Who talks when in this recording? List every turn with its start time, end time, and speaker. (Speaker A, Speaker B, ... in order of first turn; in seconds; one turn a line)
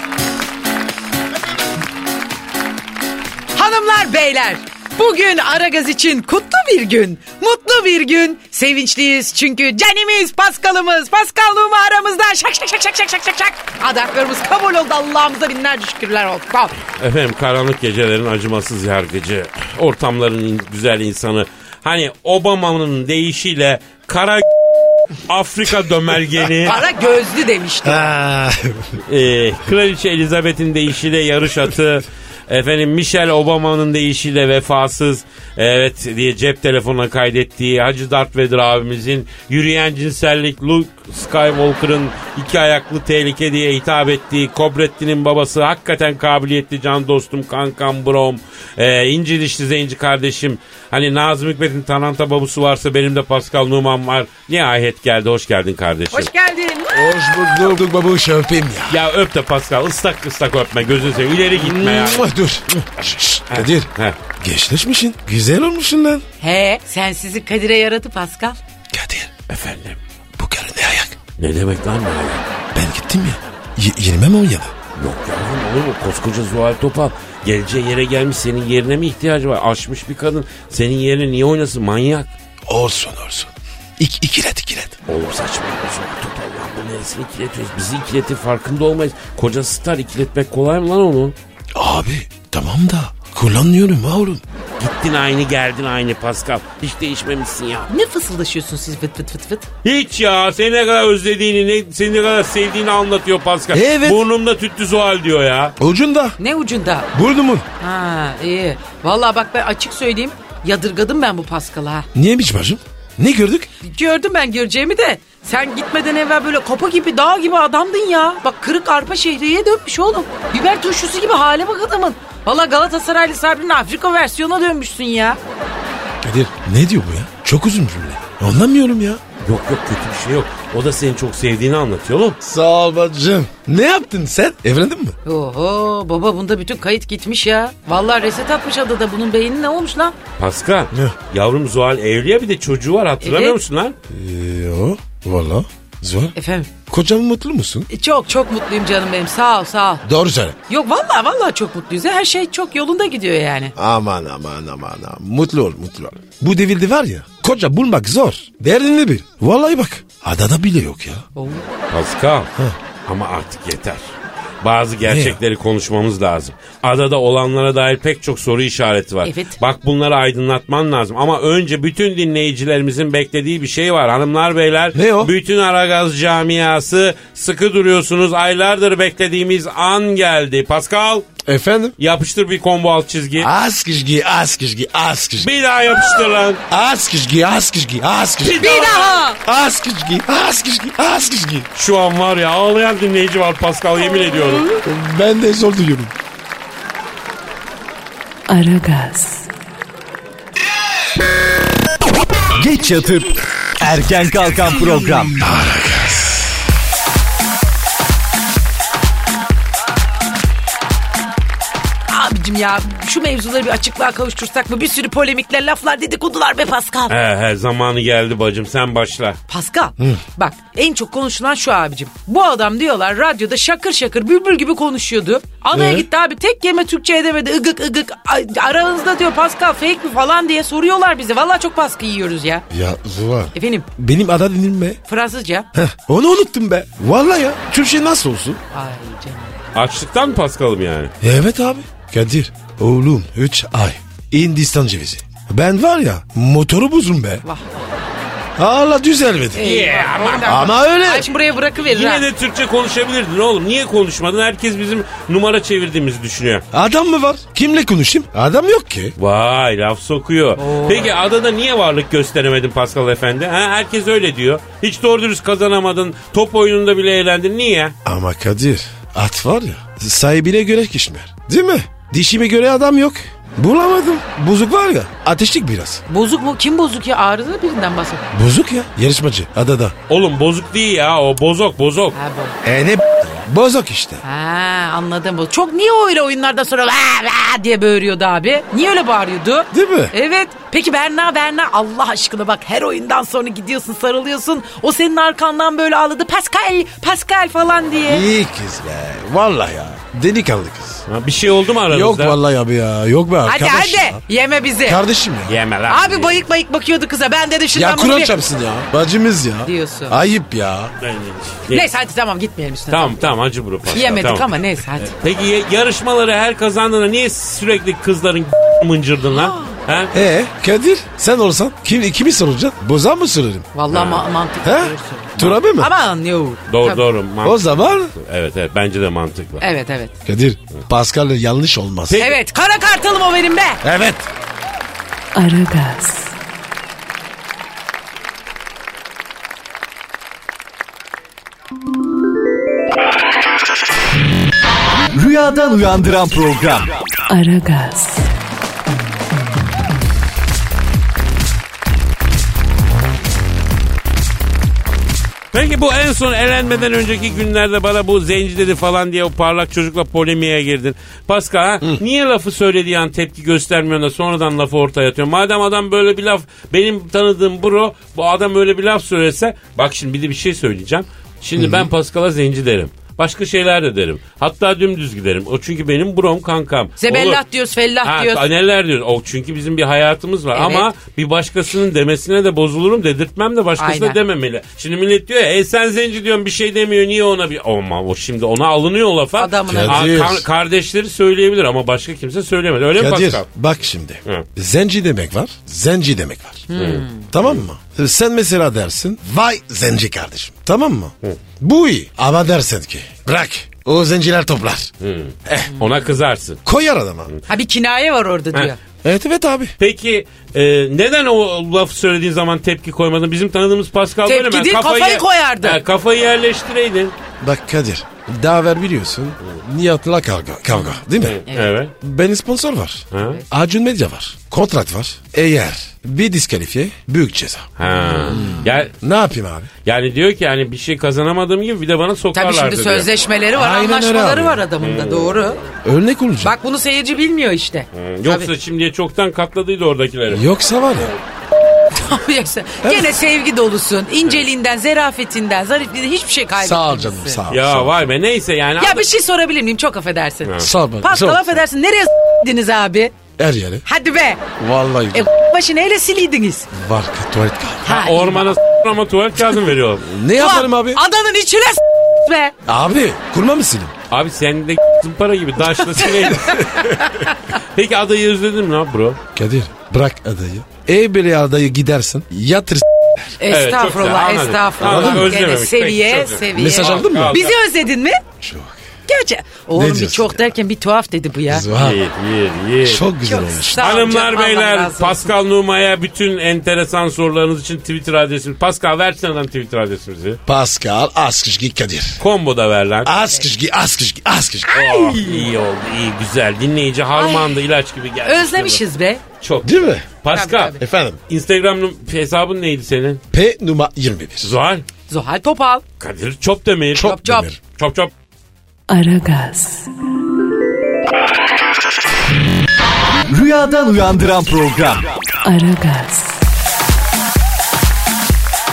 Speaker A: 3.5-16.7
Speaker B: 16.9-24.4
Speaker B: 25.3-26.8
Speaker A: 26.6-28.1
Speaker C: 27.8-29.0
Speaker B: 29.1-56.3
Speaker A: 56.1-57.6
Speaker C: 56.9-59.0
Speaker B: 58.9-62.3
Speaker C: 61.5-66.2
Speaker B: 63.5-64.2
Speaker A: 66.4-68.6
Speaker C: 68.9-69.3
Speaker B: 69.5-70.0
Speaker C: 70.4-71.2
Speaker B: 71.4-72.5
Speaker C: 72.7-74.7
Speaker B: 75.0-82.3
Speaker C: 82.7-85.0
Speaker B: 85.1-91.3
Speaker C: 91.8-94.4
Speaker B: 94.8-97.9
Speaker A: 97.9-99.7
Speaker B: 99.8-105.8
Speaker C: 103.7-104.2
Speaker C: 105.8-106.4
Speaker A: 106.4-107.1
Speaker C: 107.1-107.7
Speaker A: 107.8-112.1
Speaker C: 112.2-113.7
Speaker A: 113.8-125.4
Speaker C: 126.2-129.2
Speaker B: 129.4-132.4
Speaker C: 132.4-135.2
Speaker A: 135.3-140.2
Speaker B: 140.4-143.9
Speaker A: 143.2-143.6
Speaker C: 144.1-146.3
Speaker A: 146.3-146.7
Speaker C: 146.9-147.9
Speaker A: 147.9-150.0
Speaker C: 150.0-150.6
Speaker A: 150.7-153.8
Speaker C: 153.8-161.2
Speaker A: 161.3-161.7
Speaker B: 161.9-162.5
Speaker B: 163.1-164.0
Speaker B: 164.6-181.3
Speaker C: 165.0-165.4
Speaker A: 169.2-169.6
Speaker C: 174.9-175.3
Speaker C: 181.4-181.9
Speaker B: 182.0-183.5
Speaker C: 183.4-185.5
Speaker B: 185.4-186.6
Speaker C: 186.7-188.9
Speaker B: 188.4-189.2
Speaker A: 188.6-189.4
Speaker C: 189.4-191.7
Speaker B: 191.8-194.7
Speaker C: 194.8-196.1
Speaker D: 198.5-199.5
Speaker E: 202.6-205.4
Speaker C: 205.4-206.5
Speaker A: 212.1-217.1
Speaker B: 217.1-219.4
Speaker A: 219.5-232.7
Speaker C: 225.7-226.1
Speaker C: 232.7-235.0
Speaker A: 233.6-233.9
Speaker A: 235.1-235.7
Speaker C: 235.7-238.6
Speaker A: 238.7-239.6
Speaker B: 239.8-241.1
Speaker C: 241.2-247.4
Speaker A: 247.4-248.1
Speaker C: 248.6-249.7
Speaker A: 249.6-252.3
Speaker B: 249.6-250.7
Speaker C: 250.4-251.3
Speaker B: 251.8-256.6
Speaker C: 256.7-259.2
Speaker B: 259.2-267.9
Speaker A: 260.6-261.1
Speaker C: 268.1-276.0
Speaker A: 276.1-278.2
Speaker C: 278.3-279.9
Speaker B: 280.1-282.2
Speaker A: 282.1-282.6
Speaker C: 282.6-284.2
Speaker A: 284.2-298.2
Speaker C: 289.7-290.1
Speaker C: 298.1-301.0
Speaker B: 301.1-302.4
Speaker C: 301.9-304.2
Speaker A: 303.4-305.0
Speaker C: 304.9-305.6
Speaker B: 305.5-306.4
Speaker A: 305.9-308.4
Speaker C: 307.7-310.9
Speaker A: 309.6-310.2
Speaker B: 311.0-311.9
Speaker A: 311.7-313.2
Speaker B: 312.9-314.5
Speaker A: 313.9-315.1
Speaker B: 315.2-320.1
Speaker A: 319.3-319.8
Speaker C: 320.1-323.7
Speaker A: 323.7-327.0
Speaker B: 323.9-324.3
Speaker C: 324.6-325.9
Speaker B: 326.7-329.6
Speaker C: 327.4-328.1
Speaker A: 329.6-330.1
Speaker C: 330.2-332.2
Speaker B: 332.1-332.4
Speaker A: 332.2-333.8
Speaker C: 333.8-334.3
Speaker D: 335.3-336.3
Speaker E: 345.1-346.9
Speaker D: 347.3-348.3
Speaker B: 355.5-377.4
Speaker C: 371.6-371.9
Speaker A: 377.0-378.4
Speaker B: 378.0-393.4
Speaker A: 380.5-380.9
Speaker A: 383.8-384.2
Speaker A: 389.4-390.1
Speaker C: 389.7-390.5
Speaker C: 392.9-396.7
Speaker A: 396.7-397.3
Speaker B: 396.7-397.6
Speaker C: 397.3-404.9
Speaker B: 405.0-406.6
Speaker C: 405.5-405.7
Speaker C: 406.6-407.3
Speaker A: 407.5-408.8
Speaker C: 409.0-409.8
Speaker B: 409.8-417.1
Speaker A: 414.3-415.8
Speaker C: 417.4-421.4
Speaker B: 421.2-421.9
Speaker A: 421.5-421.8
Speaker C: 422.0-427.7
Speaker B: 423.1-423.4
Speaker B: 427.8-428.9
Speaker A: 427.9-428.6
Speaker C: 428.3-429.7
Speaker B: 429.9-433.1
Speaker A: 432.3-435.6
Speaker C: 433.5-434.6
Speaker B: 434.8-435.7
Speaker C: 435.8-436.5
Speaker A: 436.4-438.5
Speaker B: 437.9-441.2
Speaker C: 440.3-441.1
Speaker A: 441.9-447.4
Speaker C: 442.8-443.2
Speaker C: 446.6-448.0
Speaker B: 447.5-449.1
Speaker A: 448.8-453.1
Speaker B: 450.4-450.7
Speaker C: 450.6-451.6
Speaker C: 453.4-453.8
Speaker A: 453.9-454.4
Speaker C: 454.6-455.3
Speaker A: 455.1-456.7
Speaker C: 456.7-458.0
Speaker A: 457.9-458.6
Speaker B: 457.9-460.1
Speaker C: 460.0-461.0
Speaker A: 460.4-462.5
Speaker C: 462.7-463.9
Speaker B: 464.1-467.0
Speaker A: 466.0-467.3
Speaker B: 467.6-469.2
Speaker C: 469.4-473.4
Speaker A: 473.4-478.2
Speaker B: 473.5-477.6
Speaker C: 474.8-475.3
Speaker C: 476.5-477.4
Speaker C: 478.4-478.8
Speaker A: 479.1-481.7
Speaker C: 479.7-480.4
Speaker C: 481.5-482.0
Speaker B: 481.7-483.1
Speaker C: 482.8-484.0
Speaker A: 483.2-485.3
Speaker B: 483.8-490.4
Speaker C: 490.5-492.2
Speaker B: 492.2-493.1
Speaker C: 493.0-494.9
Speaker A: 494.7-495.5
Speaker B: 494.7-498.8
Speaker A: 497.1-497.6
Speaker A: 498.2-499.2
Speaker B: 499.4-503.2
Speaker C: 499.6-500.1
Speaker A: 500.3-500.8
Speaker C: 500.8-501.2
Speaker C: 503.3-504.5
Speaker B: 504.4-504.9
Speaker A: 505.1-505.8
Speaker B: 506.0-507.1
Speaker C: 506.9-507.6
Speaker A: 507.0-507.5
Speaker B: 507.8-508.1
Speaker D: 508.9-509.9
Speaker E: 513.3-515.1
Speaker D: 515.4-516.4